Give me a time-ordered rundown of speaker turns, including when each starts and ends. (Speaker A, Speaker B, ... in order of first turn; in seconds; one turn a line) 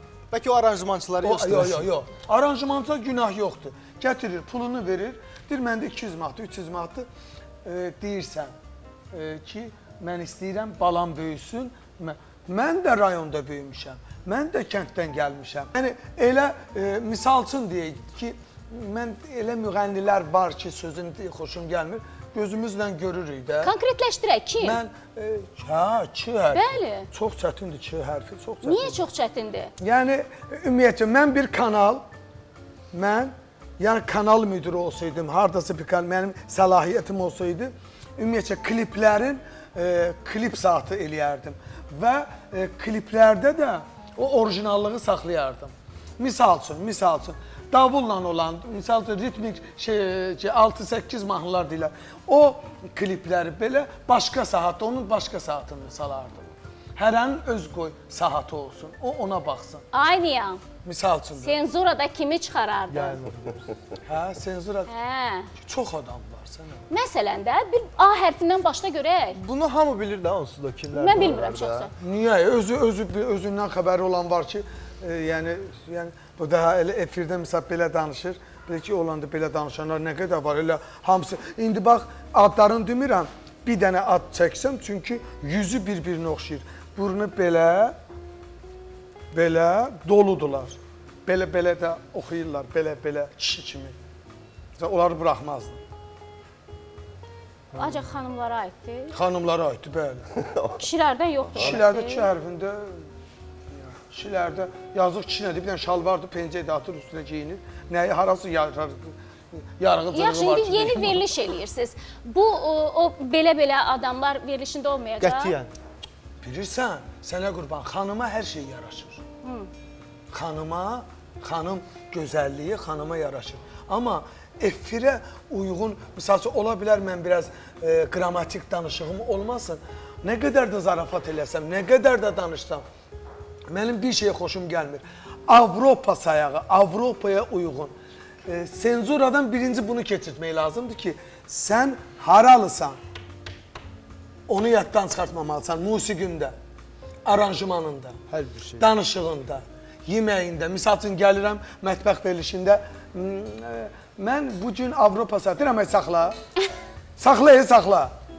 Speaker A: 0.3-1.9
Speaker B: 1.2-7.1
Speaker B: 7.6-8.5
Speaker B: 9.1-23.7
Speaker C: 23.6-24.8
Speaker B: 24.6-29.0
Speaker C: 26.5-27.1
Speaker C: 28.6-29.7
Speaker B: 29.8-32.0
Speaker B: 32.9-59.8
Speaker C: 59.9-60.6
Speaker B: 60.8-61.6
Speaker C: 61.4-63.2
Speaker A: 62.9-63.7
Speaker B: 64.0-64.9
Speaker C: 64.9-65.5
Speaker B: 65.6-66.8
Speaker C: 66.9-69.4
Speaker A: 69.3-71.9
Speaker C: 70.9-71.9
Speaker B: 72.0-87.9
Speaker B: 89.3-94.0
Speaker B: 94.8-95.8
Speaker C: 97.7-99.2
Speaker B: 99.1-100.2
Speaker C: 100.7-102.3
Speaker B: 101.5-103.0
Speaker B: 103.9-111.2
Speaker C: 110.1-115.5
Speaker A: 115.2-115.7
Speaker B: 116.4-119.2
Speaker C: 119.4-119.7
Speaker B: 120.3-132.8
Speaker B: 133.7-137.9
Speaker B: 138.4-143.0
Speaker B: 144.5-146.5
Speaker B: 147.2-148.2
Speaker A: 148.3-148.9
Speaker B: 148.8-156.3
Speaker B: 157.2-158.1